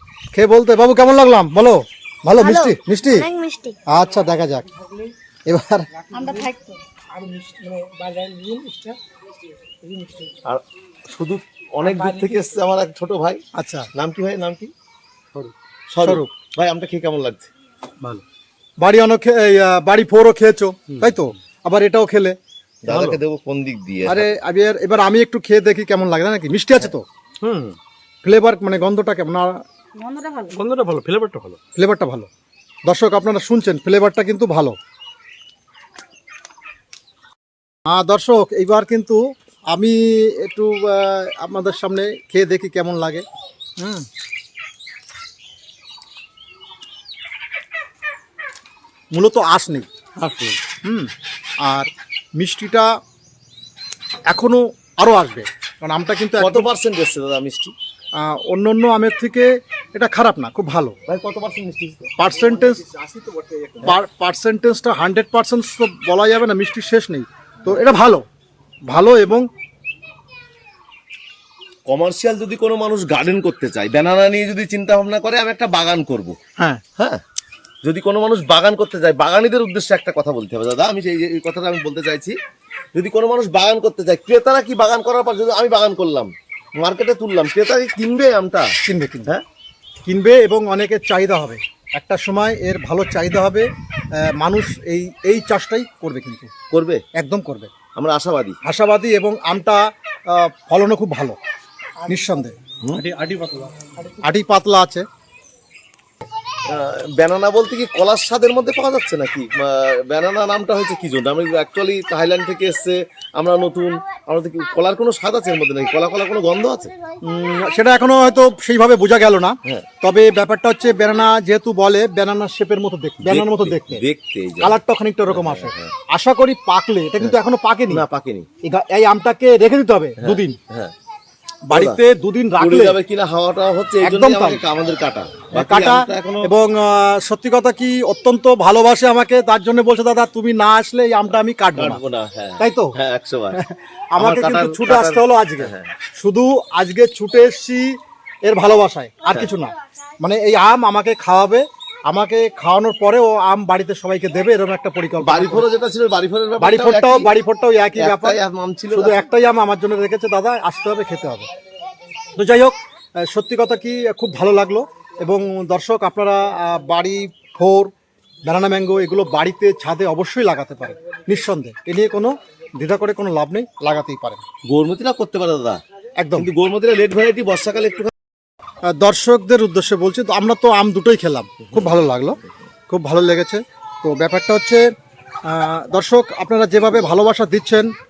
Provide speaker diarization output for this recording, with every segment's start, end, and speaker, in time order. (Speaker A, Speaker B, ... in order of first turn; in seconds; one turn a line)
Speaker A: 0.3-3.3
Speaker B: 2.4-3.8
Speaker A: 3.9-4.7
Speaker A: 5.5-5.9
Speaker B: 6.1-6.9
Speaker C: 7.1-8.9
Speaker D: 10.4-13.4
Speaker A: 13.6-13.9
Speaker D: 13.9-14.7
Speaker D: 15.9-17.5
Speaker A: 16.0-16.3
Speaker A: 18.8-22.4
Speaker D: 22.8-24.3
Speaker C: 22.9-23.2
Speaker A: 24.0-27.0
Speaker C: 27.4-27.8
Speaker A: 28.2-29.6
Speaker B: 29.9-30.6
Speaker C: 30.5-31.6
Speaker A: 31.8-32.3
Speaker A: 32.9-34.8
Speaker A: 37.9-39.2
Speaker A: 39.7-43.2
Speaker A: 43.8-44.1
Speaker A: 49.1-49.9
Speaker C: 50.2-50.6
Speaker A: 50.8-51.1
Speaker A: 51.6-52.9
Speaker A: 54.3-56.7
Speaker D: 56.4-57.7
Speaker A: 58.2-61.0
Speaker D: 61.1-62.3
Speaker A: 62.2-62.8
Speaker C: 62.9-63.7
Speaker A: 63.8-68.2
Speaker A: 68.9-69.5
Speaker D: 71.9-76.4
Speaker D: 77.0-77.2
Speaker D: 77.8-82.3
Speaker D: 82.9-88.7
Speaker A: 88.8-89.3
Speaker A: 90.0-93.7
Speaker A: 94.2-96.5
Speaker D: 96.7-97.0
Speaker A: 97.2-97.7
Speaker D: 97.9-98.6
Speaker A: 98.6-99.8
Speaker A: 100.3-101.4
Speaker A: 102.0-102.6
Speaker D: 102.8-103.0
Speaker C: 102.9-104.0
Speaker A: 104.2-105.0
Speaker D: 106.7-116.9
Speaker A: 117.2-124.0
Speaker D: 123.2-125.9
Speaker A: 124.6-128.0
Speaker D: 127.9-128.5
Speaker A: 128.6-130.6
Speaker D: 130.2-130.9
Speaker A: 131.7-133.0
Speaker D: 131.7-132.0
Speaker D: 132.6-136.5
Speaker A: 134.0-134.6
Speaker A: 135.5-142.0
Speaker D: 141.7-143.6
Speaker A: 142.6-142.9
Speaker A: 143.5-147.9
Speaker D: 144.2-145.9
Speaker A: 148.4-155.7
Speaker D: 155.2-157.3
Speaker A: 156.6-158.4
Speaker D: 157.9-159.3
Speaker A: 158.9-161.5
Speaker A: 162.3-167.9
Speaker A: 168.4-174.4
Speaker D: 174.7-175.8
Speaker A: 176.2-176.5
Speaker D: 176.3-178.1
Speaker A: 178.9-184.9
Speaker A: 185.5-187.9